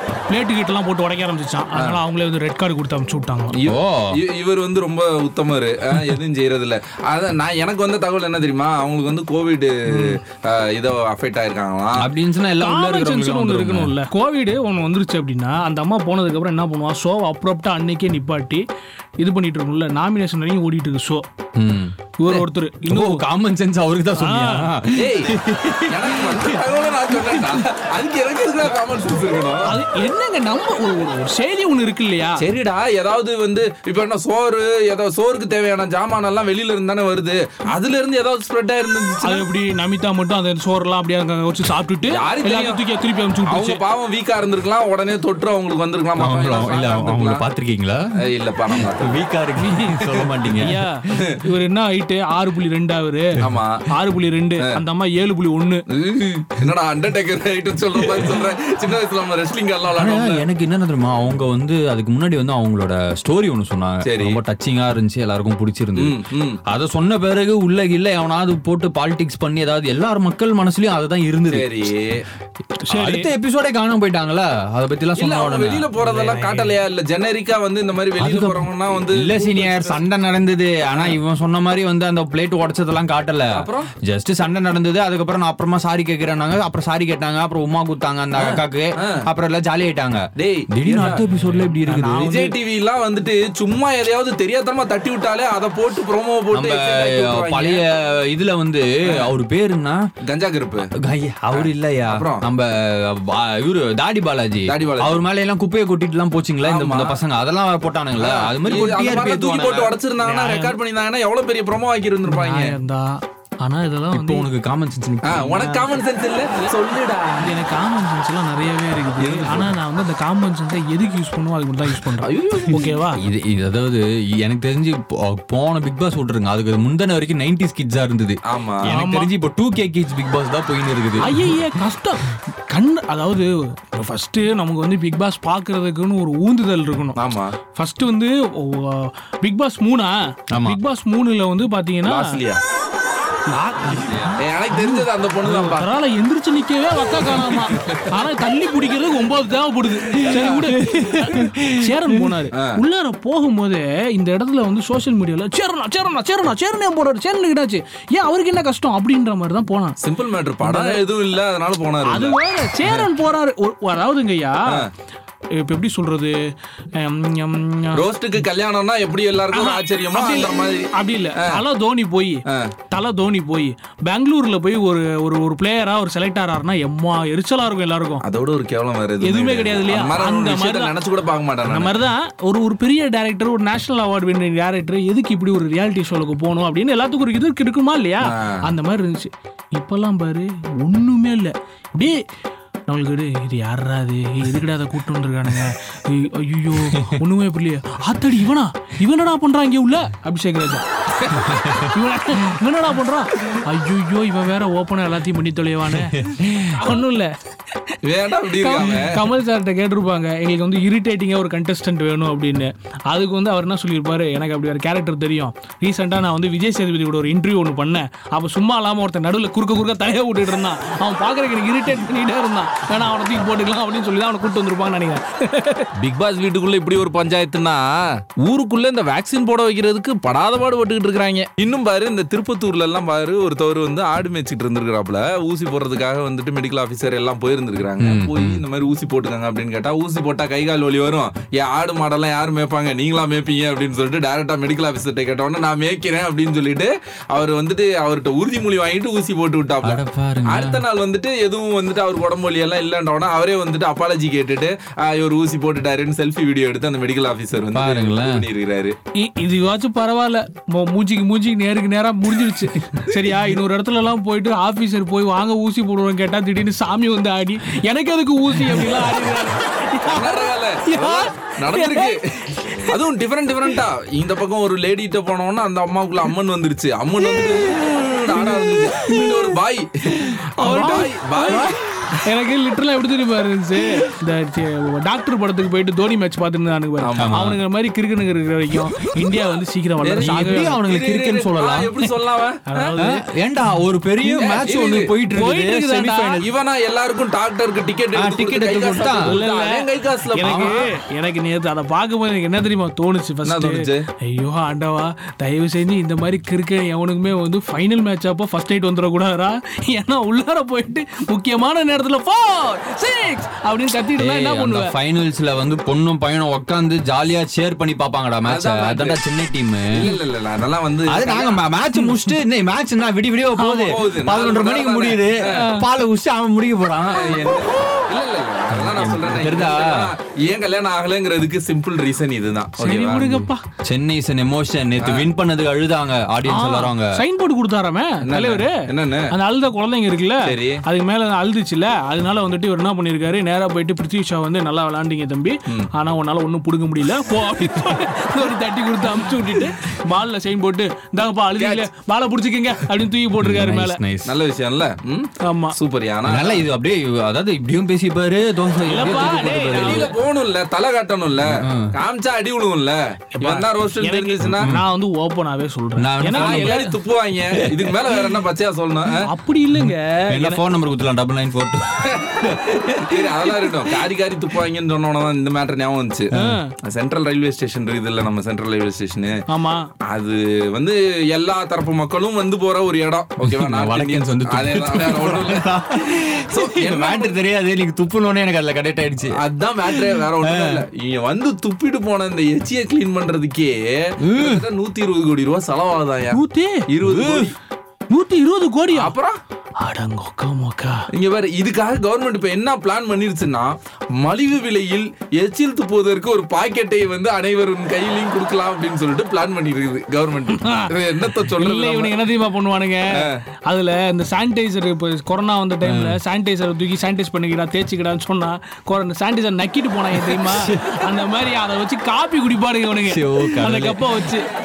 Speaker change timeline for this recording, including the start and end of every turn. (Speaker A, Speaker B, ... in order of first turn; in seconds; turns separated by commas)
Speaker A: 0.3-3.5, Speaker B: 3.5-12.1, Speaker C: 3.7-4.2, Speaker C: 12.0-13.9, Speaker A: 12.6-18.6, Speaker A: 19.2-21.3, Speaker C: 21.6-26.6, Speaker A: 22.2-23.3, Speaker A: 24.1-24.7, Speaker B: 24.9-29.7, Speaker C: 27.2-27.6, Speaker A: 29.7-32.4, Speaker B: 32.4-39.5, Speaker A: 39.2-43.8, Speaker B: 42.1-42.8, Speaker B: 43.5-47.4, Speaker C: 46.2-48.0, Speaker B: 48.2-49.2, Speaker C: 48.8-50.8, Speaker A: 49.6-50.0, Speaker A: 50.6-53.4, Speaker B: 53.4-53.8, Speaker A: 53.9-55.8, Speaker B: 55.9-60.4, Speaker C: 60.0-66.2, Speaker B: 64.0-64.4, Speaker B: 66.0-66.6, Speaker C: 66.7-71.7, Speaker B: 71.5-72.2, Speaker A: 72.8-73.3, Speaker C: 72.9-75.9, Speaker B: 75.2-80.0, Speaker A: 76.0-76.8, Speaker C: 78.2-92.3, Speaker B: 83.5-83.9, Speaker B: 88.4-89.2, Speaker B: 90.4-91.3, Speaker A: 91.9-92.5, Speaker B: 92.2-97.9, Speaker C: 96.5-100.0, Speaker B: 100.2-100.9, Speaker C: 101.0-110.0, Speaker B: 101.5-102.4, Speaker B: 104.7-105.2, Speaker B: 106.6-107.2, Speaker B: 108.2-112.7, Speaker A: 110.2-110.8, Speaker A: 112.3-114.5, Speaker C: 114.1-115.6, Speaker B: 115.3-117.4, Speaker A: 115.6-115.9, Speaker A: 117.4-123.2, Speaker B: 119.2-119.8, Speaker B: 122.2-123.0, Speaker C: 122.8-131.5, Speaker B: 128.5-128.9, Speaker A: 128.9-129.3, Speaker A: 131.2-137.2, Speaker B: 137.2-137.6, Speaker A: 137.8-142.2, Speaker C: 140.5-140.8, Speaker B: 142.1-142.6, Speaker A: 143.5-160.0, Speaker B: 144.4-145.9, Speaker B: 150.2-150.8, Speaker C: 150.8-152.3, Speaker B: 160.0-163.1, Speaker A: 160.6-161.0, Speaker A: 162.1-164.6, Speaker A: 165.6-166.3, Speaker A: 167.0-168.0, Speaker B: 167.9-170.9, Speaker A: 169.5-178.2, Speaker B: 178.2-182.0, Speaker A: 179.2-180.9, Speaker A: 181.6-192.2, Speaker B: 188.3-188.5, Speaker A: 192.9-200.8, Speaker C: 196.9-197.2, Speaker C: 201.3-201.9, Speaker A: 201.8-207.4, Speaker C: 206.1-206.7, Speaker B: 208.0-209.2, Speaker A: 208.5-225.9, Speaker B: 226.0-259.0, Speaker C: 238.0-238.6, Speaker C: 249.8-250.8, Speaker C: 257.8-258.4, Speaker A: 259.2-273.0, Speaker B: 270.1-281.8, Speaker A: 280.6-281.7, Speaker C: 280.7-281.0, Speaker A: 282.2-290.8, Speaker B: 287.0-287.4, Speaker C: 287.2-287.6, Speaker B: 290.0-292.9, Speaker C: 290.2-292.0, Speaker A: 292.7-293.2, Speaker C: 293.0-296.4, Speaker A: 294.3-294.6, Speaker B: 294.7-295.1, Speaker A: 295.3-296.4, Speaker B: 296.4-300.8, Speaker C: 298.2-299.4, Speaker A: 299.3-314.9, Speaker C: 300.4-300.8, Speaker B: 303.4-304.1, Speaker C: 314.2-320.1, Speaker B: 318.5-319.2, Speaker B: 319.9-321.6, Speaker C: 321.1-327.8, Speaker A: 321.9-322.2, Speaker A: 323.6-324.0, Speaker B: 323.9-325.5, Speaker A: 325.5-325.9, Speaker B: 327.1-333.3, Speaker C: 328.7-330.1, Speaker A: 332.8-333.6, Speaker C: 333.1-337.2, Speaker B: 335.0-335.3, Speaker A: 336.5-338.8, Speaker B: 338.2-339.3, Speaker A: 339.3-354.0, Speaker B: 340.4-340.8, Speaker B: 351.6-351.9, Speaker C: 353.4-354.3, Speaker B: 354.2-356.7, Speaker A: 355.4-355.8, Speaker C: 356.2-360.1, Speaker A: 358.9-360.1, Speaker B: 359.7-364.7, Speaker C: 361.5-361.9, Speaker A: 363.3-366.9, Speaker C: 364.4-364.9, Speaker C: 366.0-366.8, Speaker B: 366.4-369.2, Speaker C: 367.8-368.1, Speaker A: 369.2-370.6, Speaker C: 369.8-372.6, Speaker B: 372.1-376.3, Speaker C: 373.2-373.7, Speaker A: 376.3-376.7, Speaker B: 376.8-379.3, Speaker A: 379.5-379.9, Speaker B: 380.1-385.7, Speaker C: 383.4-390.8, Speaker B: 386.5-387.4, Speaker B: 389.3-397.6, Speaker C: 394.2-394.6, Speaker A: 396.3-396.9, Speaker C: 397.0-397.5, Speaker A: 398.1-399.1, Speaker B: 398.9-399.4, Speaker A: 399.8-401.0, Speaker B: 401.1-412.1, Speaker A: 410.6-410.9, Speaker A: 411.5-413.1, Speaker A: 413.7-424.4, Speaker C: 415.8-416.2, Speaker C: 420.2-421.0, Speaker C: 423.0-424.1